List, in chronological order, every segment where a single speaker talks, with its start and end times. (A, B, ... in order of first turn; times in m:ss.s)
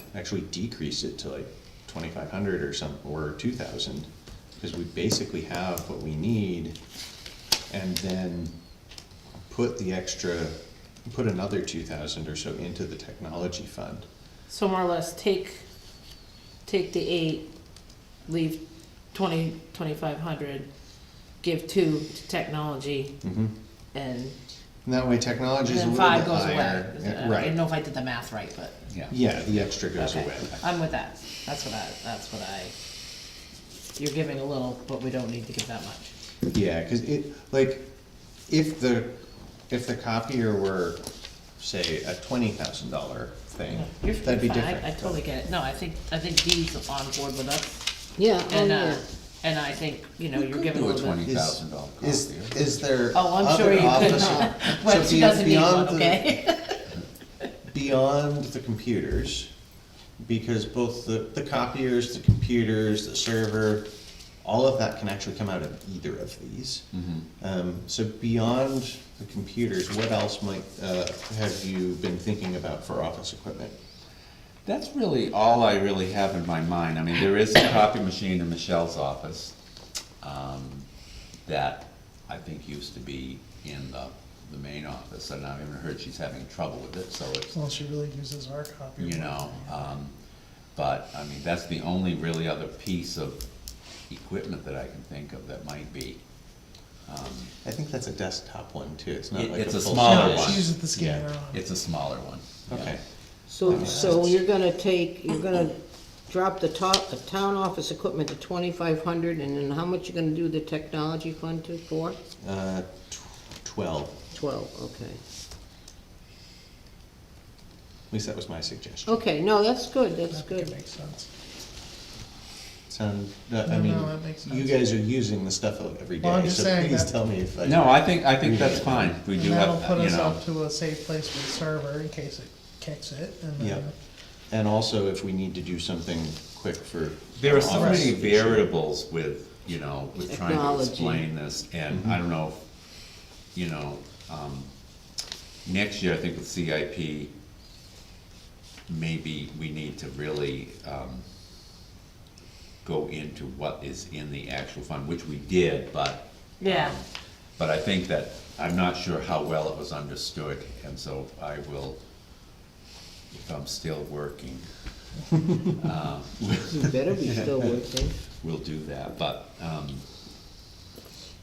0:00.1-0:06.8 A
0:07.7-0:08.5 A
0:09.5-0:10.6 A
0:11.1-0:14.1 A
0:14.5-0:15.6 B
0:16.7-0:17.5 B
0:18.3-0:18.6 B
0:19.1-0:20.7 B
0:21.4-0:23.2 B
0:23.2-0:23.5 A
0:23.9-0:24.4 B
0:24.8-0:27.6 A
0:25.7-0:28.8 B
0:28.9-0:29.7 C
0:29.1-0:30.6 A
0:30.0-0:32.7 B
0:34.0-0:36.1 B
0:36.5-0:37.9 A
0:38.5-0:39.1 A
0:39.7-0:41.0 A
0:41.6-0:45.2 A
0:43.7-0:47.9 B
0:48.2-0:49.0 D
0:48.4-0:51.2 B
0:50.3-0:52.7 C
0:51.2-0:56.3 A
0:53.1-0:57.0 B
0:53.8-0:54.0 C
0:53.9-0:54.5 D
0:57.7-0:59.5 A
1:00.2-1:03.9 A
1:04.4-1:13.8 A
1:06.9-1:07.2 C
1:14.6-1:19.5 C
1:20.2-1:20.9 C
1:21.5-1:27.6 C
1:27.5-1:29.9 E
1:29.0-1:30.1 C
1:30.8-1:33.4 C
1:34.1-1:36.2 C
1:37.1-1:37.5 C
1:37.6-1:40.7 A
1:39.3-1:43.0 C
1:40.0-1:41.6 E
1:42.7-1:43.0 A
1:43.5-1:45.8 D
1:43.6-1:44.4 A
1:43.7-1:44.1 C
1:46.3-1:52.2 D
1:52.4-1:54.2 A
1:54.3-1:55.2 D
1:58.1-1:59.2 A
1:59.1-2:00.7 D
2:00.3-2:01.3 E
2:02.9-2:09.2 A
2:03.6-2:04.8 E
2:06.2-2:07.1 E
2:07.6-2:10.4 C
2:09.3-2:13.9 E
2:13.6-2:13.8 A
2:14.5-2:18.7 A
2:17.4-2:22.6 C
2:17.7-2:18.1 E
2:20.2-2:21.2 D
2:23.6-2:24.7 C
2:25.6-2:27.3 C
2:28.9-2:31.2 C
2:32.8-2:37.1 C
2:36.6-2:36.9 B
2:37.6-2:42.0 C
2:43.3-2:44.6 C
2:45.8-2:47.8 C
2:46.7-2:48.1 D
2:48.4-2:50.0 C